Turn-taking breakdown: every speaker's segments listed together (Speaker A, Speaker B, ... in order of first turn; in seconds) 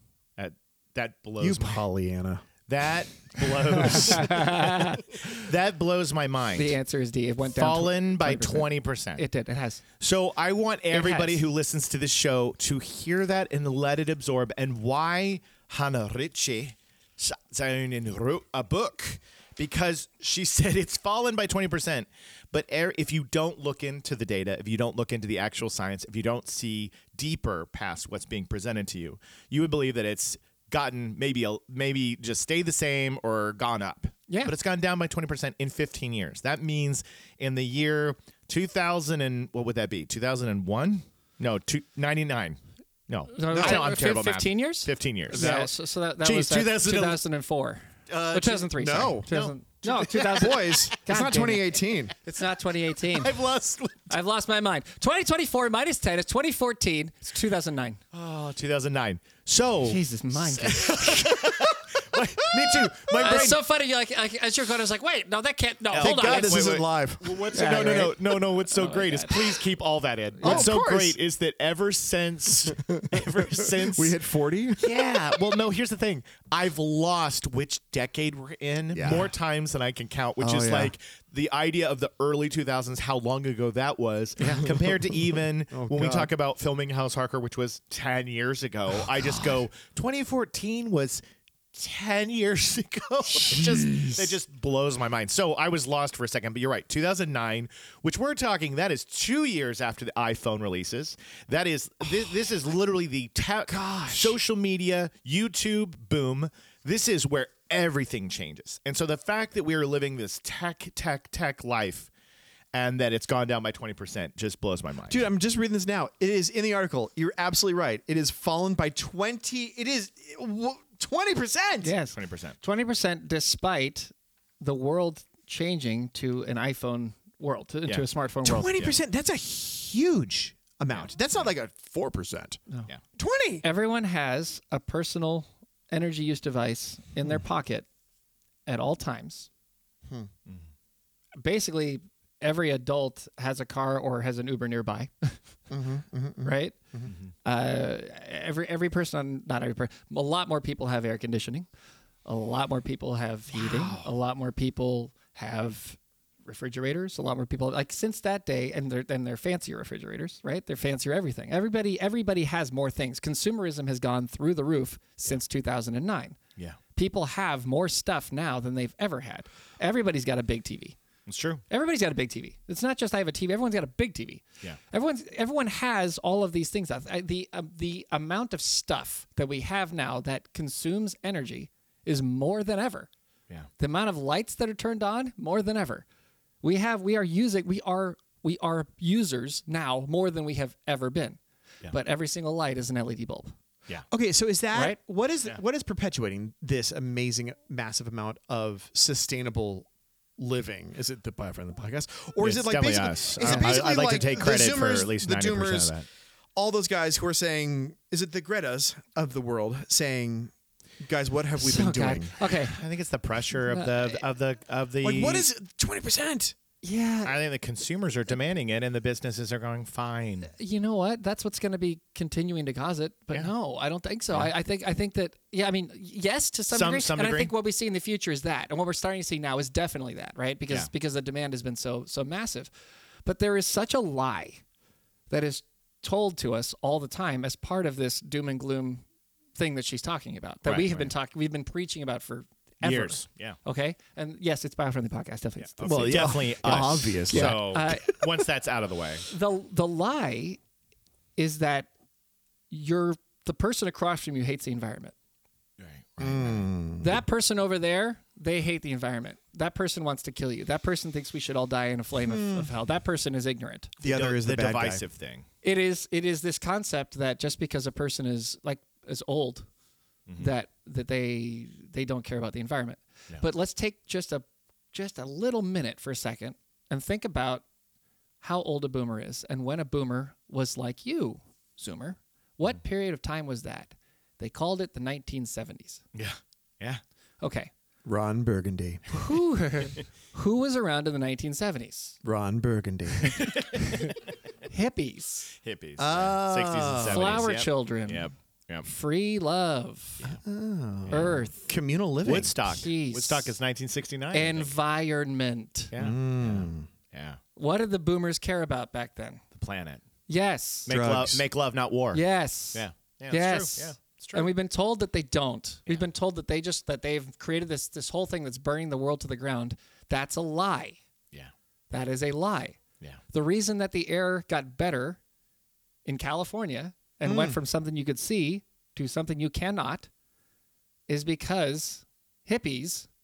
Speaker A: 0.4-1.8, 2.7-6.8, 7.5-9.2, 10.0-45.6, 46.2-47.2, 49.3-50.7, 53.0-54.1, 58.1-63.6, 65.9-74.2, 74.8-91.2, 91.7-112.1, 112.7-115.2, 122.1-122.6, 171.2-171.6, 202.4-206.0, 212.7-215.5, 217.2-220.5, 226.7-227.5, 240.6-241.1, 242.8-243.6, 245.8-249.2, 255.8-256.6, 264.0-265.4, 286.1-287.0, 293.2-294.2, 295.6-298.9, 301.1-301.4, 302.2-304.7, 305.9-307.4, 309.5-310.0, 310.9-314.5
Speaker B: 1.4-2.4, 3.8-4.2, 43.5-43.9, 45.3-45.7, 48.1-49.3, 50.2-52.1, 62.5-63.1, 66.0-67.5, 70.4-71.2, 72.7-75.2, 78.9-79.3, 80.4-80.9, 84.6-86.3, 89.2-89.5, 93.4-94.3, 103.7-104.4, 115.1-121.9, 128.4-132.6, 133.2-133.7, 145.7-147.1, 153.5-154.1, 194.1-206.0, 206.5-212.3, 215.0-216.6, 245.8-248.1, 256.2-257.2, 262.2-262.7, 264.0-265.0, 288.0-289.1, 292.2-293.5, 296.0-297.5, 300.2-302.6, 306.0-306.9, 310.9-311.4, 327.2-327.6
Speaker C: 3.8-5.0, 6.5-9.8, 10.9-11.4, 34.3-34.5, 43.3-53.4, 54.1-58.0, 59.8-61.5, 63.2-66.7, 67.5-69.6, 70.4-70.7, 84.4-84.6, 121.8-128.8, 133.6-137.9, 138.7-139.5, 141.4-145.6, 146.4-146.8, 147.4-151.7, 152.2-166.4, 166.9-171.0, 171.7-183.1, 183.8-186.0, 186.6-191.4, 191.9-193.5, 194.7-195.0, 203.4-203.7, 211.6-212.8, 213.7-214.2, 216.8-217.3, 220.4-232.7, 233.2-234.6, 235.3-239.0, 239.6-248.1, 249.3-250.6, 251.4-251.9, 252.7-255.1, 257.0-263.9, 265.6-269.7, 270.4-277.6, 278.4-286.0, 287.4-287.7, 289.1-292.2, 293.8-294.1, 294.7-295.5, 297.1-298.3, 298.8-300.2, 301.1-301.7, 302.6-303.5, 304.3-305.9, 307.6-309.4, 310.3-310.9, 312.1-321.0, 321.9-322.8, 323.3-325.2, 326.0-330.1, 331.1-333.1